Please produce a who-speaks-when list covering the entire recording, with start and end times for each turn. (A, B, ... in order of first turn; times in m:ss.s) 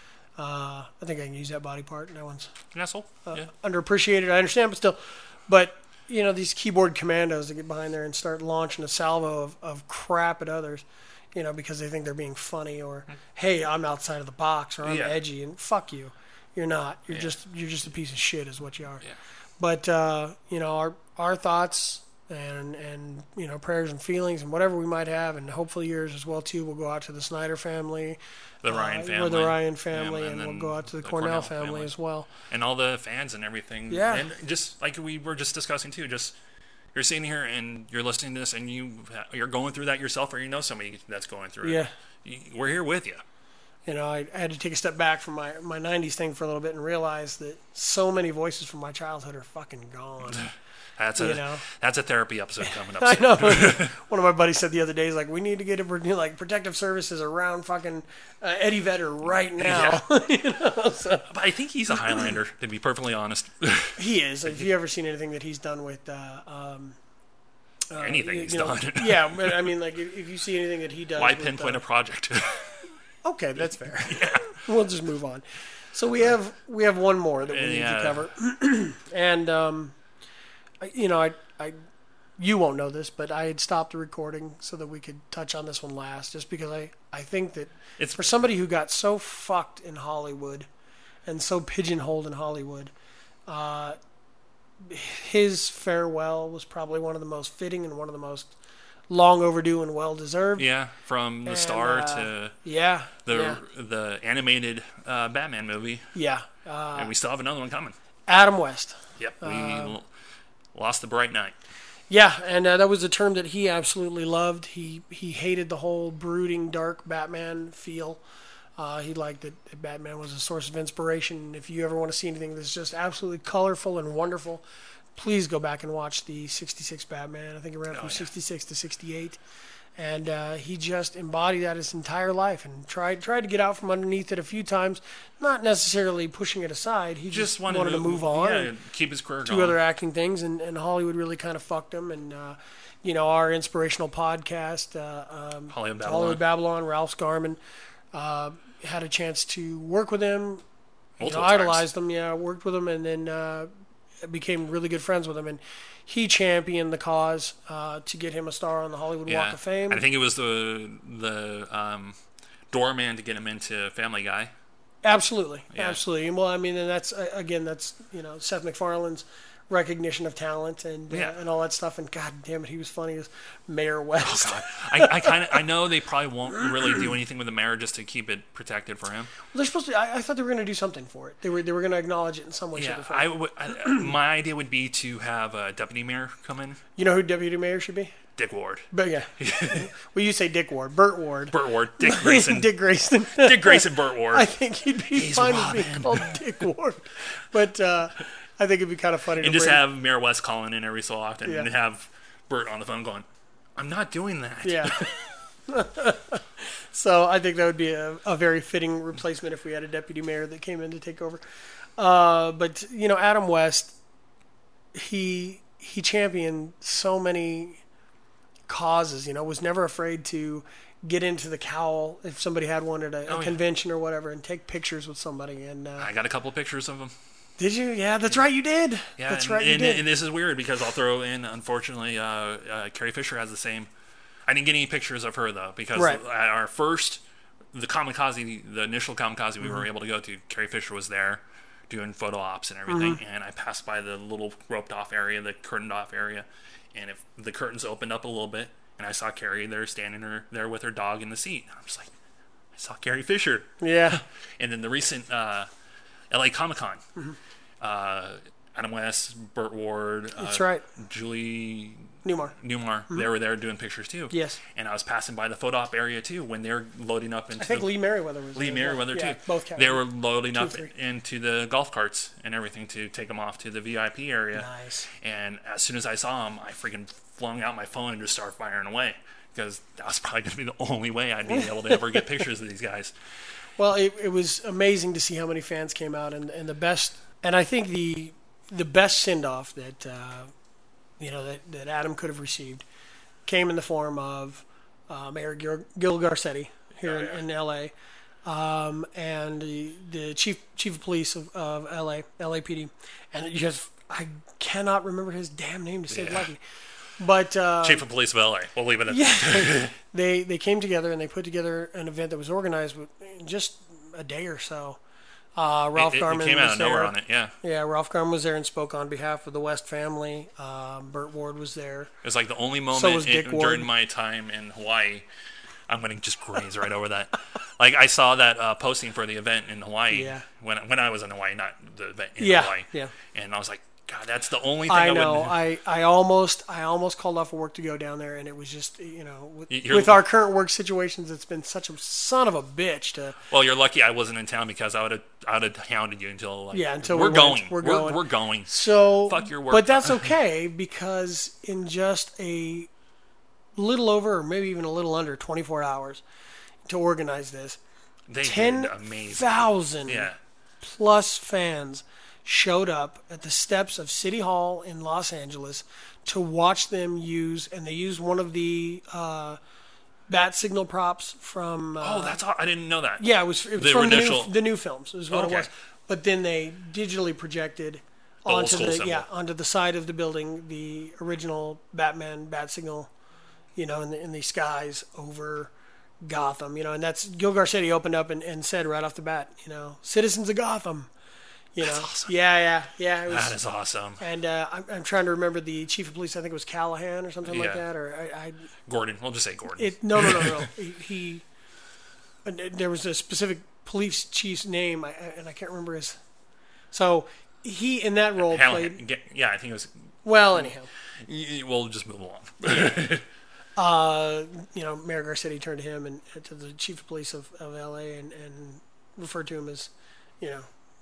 0:00.4-0:02.5 A
0:02.7-0:03.5 B
0:03.2-0:19.0 A
0:14.8-0:15.2 B
0:19.6-0:32.3 A
0:28.6-0:31.9 B
0:32.5-0:36.4 B
0:33.9-0:34.3 A
0:36.9-0:43.2 B
0:41.6-0:41.9 A
0:43.8-0:50.5 A
0:50.3-0:53.9 B
0:51.2-0:51.6 A
0:52.6-1:01.3 A
0:59.6-1:00.0 B
1:01.3-1:04.0 B
1:04.0-1:07.0 A
1:07.9-1:11.8 A
1:08.0-1:09.7 B
1:11.2-1:12.8 B
1:13.2-1:20.0 A
1:14.0-1:14.6 B
1:17.5-1:18.2 B
1:20.8-1:21.8 A
1:22.4-1:30.7 A
1:28.0-1:28.2 B
1:31.2-1:32.9 A
1:33.5-1:34.0 A
1:34.8-1:38.5 A
1:39.1-1:40.7 A
1:40.6-1:42.5 B
1:41.4-1:43.6 A
1:43.2-1:46.1 B
1:46.1-1:47.1 A
1:46.9-1:47.9 B
1:48.3-1:50.0 A
1:49.2-1:50.1 B
1:50.7-1:51.5 B
1:52.1-1:58.2 A
1:58.8-2:09.4 A
2:07.9-2:08.3 B
2:10.0-2:18.7 A
2:17.3-2:19.8 B
2:19.4-2:27.6 A
2:25.7-2:26.4 B
2:28.1-2:30.6 A
2:31.2-2:31.8 B
2:31.2-2:33.7 A
2:34.2-2:40.0 A
2:39.3-2:42.2 B
2:42.7-2:44.5 B
2:45.0-2:55.6 A
2:45.7-2:46.0 B
2:51.1-2:51.4 B
2:54.2-2:59.3 B
2:59.5-3:04.1 A
3:02.7-3:06.8 B
3:07.0-3:08.1 A
3:08.4-3:09.9 B
3:08.9-3:19.8 A
3:11.5-3:14.5 B
3:15.1-3:16.4 B
3:19.4-3:23.2 B
3:23.8-3:25.2 B
3:24.6-3:31.4 A
3:32.0-3:34.0 A
3:34.9-3:37.8 A
3:38.7-3:46.1 A
3:43.3-3:43.6 B
3:46.0-3:47.1 B
3:47.6-3:50.0 A
3:49.2-3:53.9 B
3:54.5-3:57.2 B
3:55.9-3:56.2 A
3:57.7-4:12.1 B
4:02.9-4:03.2 A
4:12.7-4:15.7 B
4:13.8-4:14.2 A
4:16.3-4:17.0 B
4:17.8-4:27.9 B
4:20.4-4:20.8 A
4:22.2-4:22.5 A
4:24.3-4:24.6 A
4:27.6-4:30.9 A
4:28.5-4:43.1 B
4:34.5-4:35.1 A
4:41.5-4:41.9 A
4:43.8-4:50.5 A
4:51.2-4:52.8 A
4:53.4-4:57.9 A
4:57.0-4:57.4 B
4:58.4-5:06.6 A
5:06.1-5:06.5 B
5:07.2-5:08.1 A
5:07.8-5:10.0 B
5:09.1-5:15.0 A
5:15.5-5:22.1 A
5:15.9-5:17.5 B
5:22.2-5:25.2 B
5:22.9-5:23.9 A
5:25.9-5:35.6 B
5:30.1-5:30.5 A
5:32.4-5:33.1 A
5:34.9-5:43.4 A
5:39.7-5:40.2 B
5:43.5-5:50.3 B
5:46.7-5:52.9 A
5:53.8-5:56.2 A
5:56.8-5:57.8 A
5:58.3-6:00.4 B
5:58.4-6:00.3 A
6:00.8-6:09.6 A
6:10.3-6:12.4 A
6:12.0-6:14.6 B
6:13.2-6:23.1 A
6:15.3-6:15.7 B
6:18.5-6:19.2 B
6:23.8-6:25.7 A
6:26.2-6:31.1 A
6:31.7-6:33.6 A
6:31.8-6:32.3 B
6:33.3-6:34.2 B
6:34.2-6:38.6 A
6:37.4-6:37.8 B
6:38.9-6:40.7 B
6:39.8-6:41.4 A
6:42.4-6:46.2 A
6:46.9-6:49.0 A
6:48.4-6:50.7 B
6:50.2-6:50.9 A
6:51.2-6:53.2 B
6:53.8-7:00.7 A